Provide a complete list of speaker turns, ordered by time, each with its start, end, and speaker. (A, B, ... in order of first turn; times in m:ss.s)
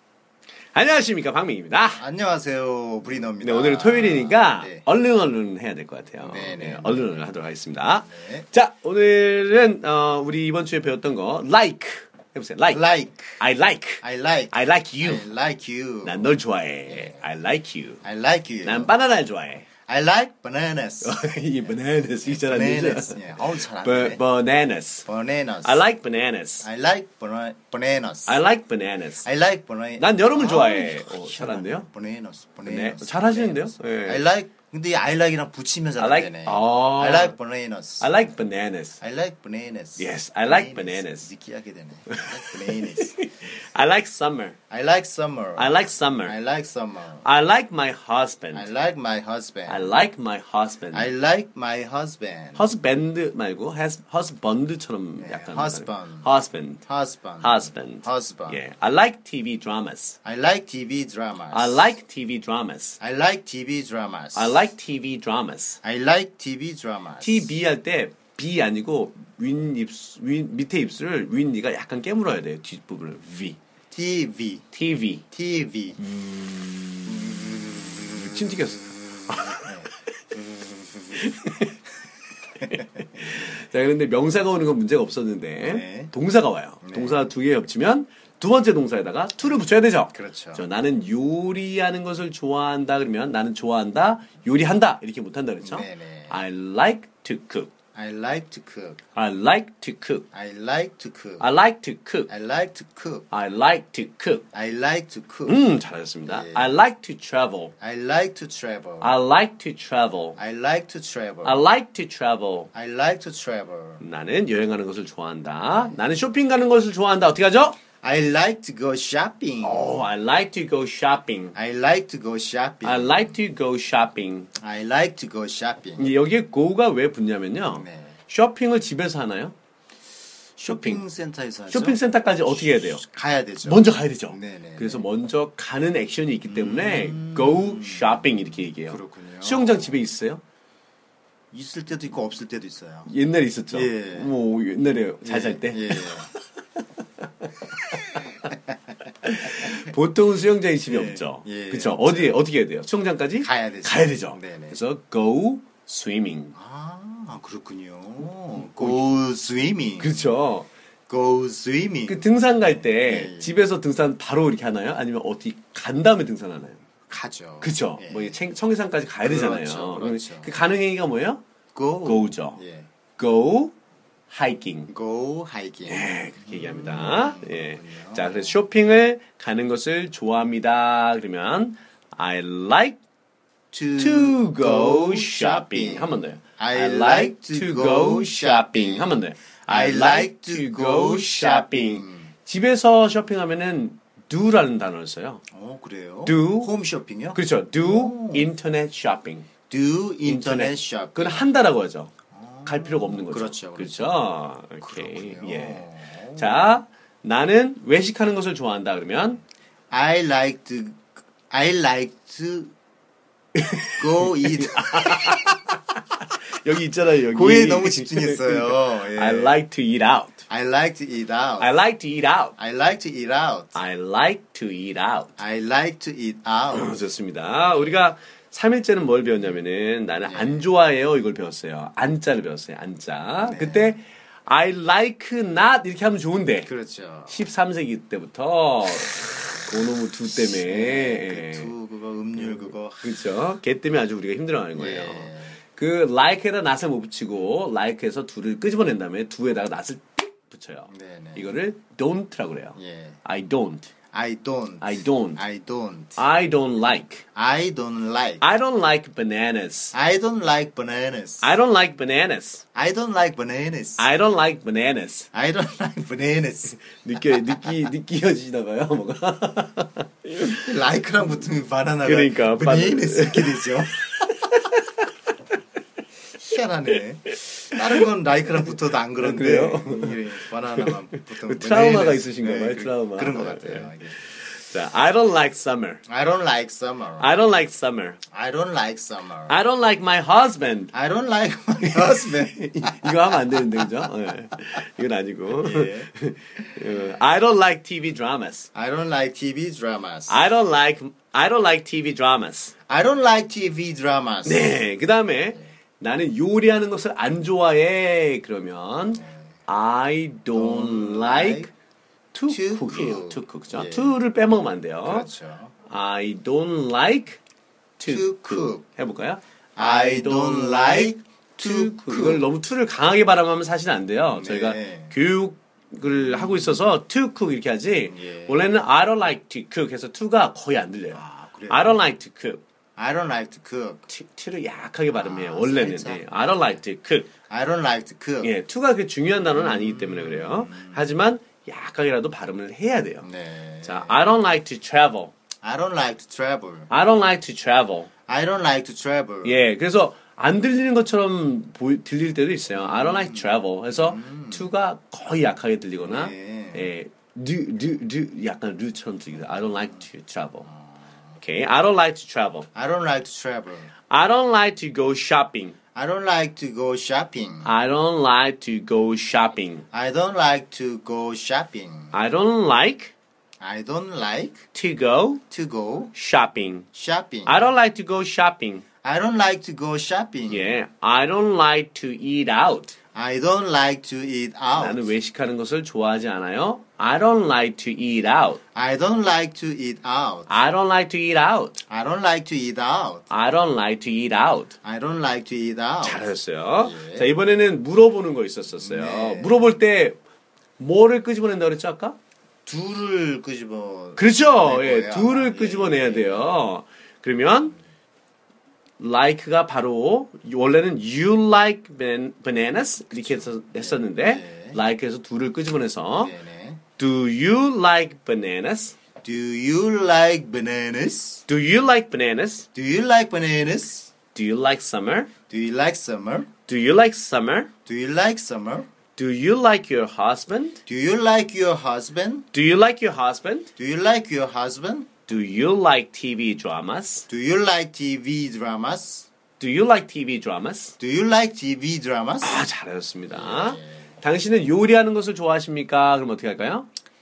0:00.7-0:02.0 A
0:02.0-0:04.8 B
0:03.4-0:12.8 A
0:06.2-0:07.3 B
0:07.8-0:08.5 B
0:12.7-0:13.4 B
0:13.4-0:15.3 A
0:14.0-0:17.2 B
0:16.0-0:18.0 A
0:18.0-0:18.9 B
0:18.6-0:19.7 A
0:19.9-0:21.2 B
0:21.0-0:25.1 A
0:22.2-0:24.2 B
0:25.1-0:25.9 B
0:25.6-0:26.7 A
0:26.6-0:28.4 B
0:28.3-0:29.3 A
0:29.2-0:38.2 B
0:30.0-0:31.9 A
0:32.6-0:34.3 A
0:36.0-0:37.4 A
0:38.0-0:39.0 A
0:39.0-0:43.2 B
0:40.0-0:41.3 A
0:42.1-0:44.6 A
0:44.7-0:47.3 B
0:45.6-0:46.4 A
0:47.2-0:48.7 A
0:48.5-0:50.0 B
0:49.7-0:51.1 A
0:50.9-0:52.7 B
0:52.6-0:56.8 A
0:55.2-0:56.3 B
0:56.8-0:58.6 B
0:57.4-1:00.2 A
1:00.2-1:02.0 B
1:01.5-1:03.0 A
1:03.0-1:04.7 B
1:04.3-1:05.8 A
1:05.8-1:07.6 B
1:07.2-1:13.6 A
1:13.9-1:14.7 B
1:14.7-1:15.3 A
1:15.3-1:16.0 B
1:16.1-1:19.7 A
1:17.1-1:19.9 B
1:21.2-1:21.8 A
1:22.7-1:37.7 A
1:25.6-1:26.1 B
1:26.8-1:27.3 B
1:29.5-1:30.6 B
1:35.6-1:36.4 B
1:38.0-1:39.0 B
1:39.2-1:40.3 A
1:40.3-1:41.5 B
1:41.4-1:42.3 A
1:42.3-1:43.3 B
1:43.3-1:44.5 A
1:44.5-1:46.8 B
1:45.5-1:47.7 A
1:47.8-1:49.2 B
1:49.0-1:50.4 A
1:50.4-1:51.7 B
1:51.4-1:52.7 A
1:52.7-1:54.0 B
1:54.0-1:57.8 A
1:58.0-2:00.1 B
1:59.6-2:01.6 A
2:01.5-2:03.4 B
2:02.8-2:04.5 A
2:04.6-2:06.2 B
2:06.0-2:09.6 A
2:07.6-2:08.2 B
2:10.6-2:12.0 B
2:10.6-2:11.0 A
2:11.7-2:13.0 A
2:12.6-2:15.1 B
2:13.6-2:20.4 A
2:16.5-2:20.0 B
2:21.5-2:23.1 B
2:23.1-2:26.3 A
2:23.7-2:24.4 B
2:25.2-2:26.3 B
2:27.7-2:28.3 A
2:29.2-2:36.6 A
2:29.4-2:29.9 B
2:30.9-2:32.5 B
2:33.4-2:34.8 B
2:36.6-2:40.4 B
2:38.5-2:39.1 A
2:40.0-2:40.7 A
2:41.1-2:43.6 B
2:42.1-2:46.8 A
2:47.1-2:48.4 B
2:47.6-2:51.4 A
2:49.2-2:50.6 B
2:51.7-2:52.9 B
2:52.0-2:52.6 A
2:53.2-2:53.7 A
2:54.3-2:54.9 A
2:54.9-2:58.6 B
2:55.9-3:03.0 A
3:03.7-3:12.3 B
3:04.0-3:15.4 A
3:15.5-3:18.5 B
3:16.2-3:16.8 A
3:17.3-3:19.5 A
3:19.7-3:21.5 B
3:20.2-3:22.1 A
3:22.3-3:24.3 B
3:22.6-3:29.4 A
3:24.8-3:26.7 B
3:29.9-3:32.7 B
3:33.6-3:40.4 A
3:34.0-3:35.5 B
3:37.2-3:39.6 B
3:40.5-3:41.8 B
3:41.6-3:42.6 A
3:42.6-3:43.8 B
3:43.7-3:45.4 A
3:45.4-3:47.0 B
3:46.7-3:56.7 A
3:47.6-3:48.0 B
3:50.2-3:50.7 B
3:53.4-3:54.0 B
3:56.6-3:57.4 B
3:57.3-4:01.8 A
4:00.2-4:03.3 B
4:02.4-4:13.9 A
4:04.7-4:05.6 B
4:10.9-4:11.6 B
4:12.8-4:13.2 B
4:14.1-4:16.3 B
4:14.8-4:15.4 A
4:16.2-4:17.2 A
4:17.3-4:18.4 B
4:18.4-4:20.0 A
4:19.9-4:21.6 B
4:21.4-4:22.6 A
4:22.8-4:24.1 B
4:24.0-4:25.3 A
4:25.3-4:27.8 B
4:26.8-4:30.7 A
4:30.5-4:34.1 B
4:32.0-4:35.0 A
4:36.4-4:44.2 B
4:37.7-4:38.0 A
4:38.5-4:46.0 A
4:46.1-4:47.4 B
4:47.2-4:48.2 A
4:48.3-4:49.6 B
4:49.5-4:50.9 A
4:50.9-4:54.1 B
4:51.8-4:58.7 A
4:55.6-4:57.1 B
4:58.8-5:00.5 B
5:00.3-5:02.8 A
5:02.9-5:04.9 B
5:04.4-5:11.7 A
5:09.2-5:09.5 B
5:10.5-5:11.7 B
5:12.3-5:15.3 A
5:12.5-5:14.2 B
5:15.0-5:15.7 B
5:15.9-5:17.4 A
5:18.0-5:32.6 A
5:18.0-5:18.9 B
5:19.8-5:22.5 B
5:24.3-5:25.2 B
5:26.1-5:26.8 B
5:28.1-5:28.7 B
5:31.1-5:32.1 B
5:33.0-5:34.1 B
5:34.1-5:37.3 A
5:35.1-5:36.8 B
5:37.5-5:38.6 B
5:38.4-5:43.3 A
5:39.4-5:41.1 B
5:43.2-5:44.3 B
5:43.8-5:45.3 A
5:45.6-5:46.9 B
5:46.9-5:48.1 A
5:48.3-5:49.7 B
5:49.4-6:00.7 A
5:52.7-5:54.7 B
5:56.0-5:56.9 B
6:00.7-6:01.2 B
6:01.4-6:02.7 A
6:02.8-6:03.9 B
6:04.1-6:05.8 A
6:06.0-6:07.8 B
6:07.6-6:09.9 A
6:09.9-6:12.2 B
6:12.1-6:13.1 A
6:13.6-6:14.7 B
6:14.7-6:15.4 A
6:15.5-6:16.1 B
6:16.1-6:16.9 A
6:16.9-6:17.6 B
6:17.5-6:18.8 A
6:19.0-6:20.8 B
6:20.5-6:23.0 A
6:23.2-6:25.1 B
6:24.7-6:28.6 A
6:28.8-6:30.6 B
6:30.5-6:31.8 A
6:31.9-6:33.3 B
6:33.3-6:34.8 A
6:34.8-6:37.4 B
6:36.0-6:40.2 A
6:38.8-6:39.7 B
6:40.8-6:42.2 A
6:42.7-6:46.7 B
6:44.2-6:47.8 A
6:49.0-6:56.3 A
6:53.1-6:54.8 B
6:56.1-6:56.8 B
6:57.0-6:59.0 A
6:59.2-7:01.4 B
7:01.5-7:02.7 A
7:02.7-7:04.1 B
7:04.3-7:05.3 A
7:05.5-7:06.5 B
7:06.7-7:07.7 A
7:07.9-7:08.9 B
7:09.2-7:10.8 A
7:10.9-7:12.5 B
7:12.5-7:13.7 A
7:13.8-7:15.1 B
7:15.3-7:17.3 A
7:17.3-7:19.3 B
7:19.6-7:21.0 A
7:21.0-7:22.7 B
7:22.4-7:26.9 A
7:23.3-7:24.0 B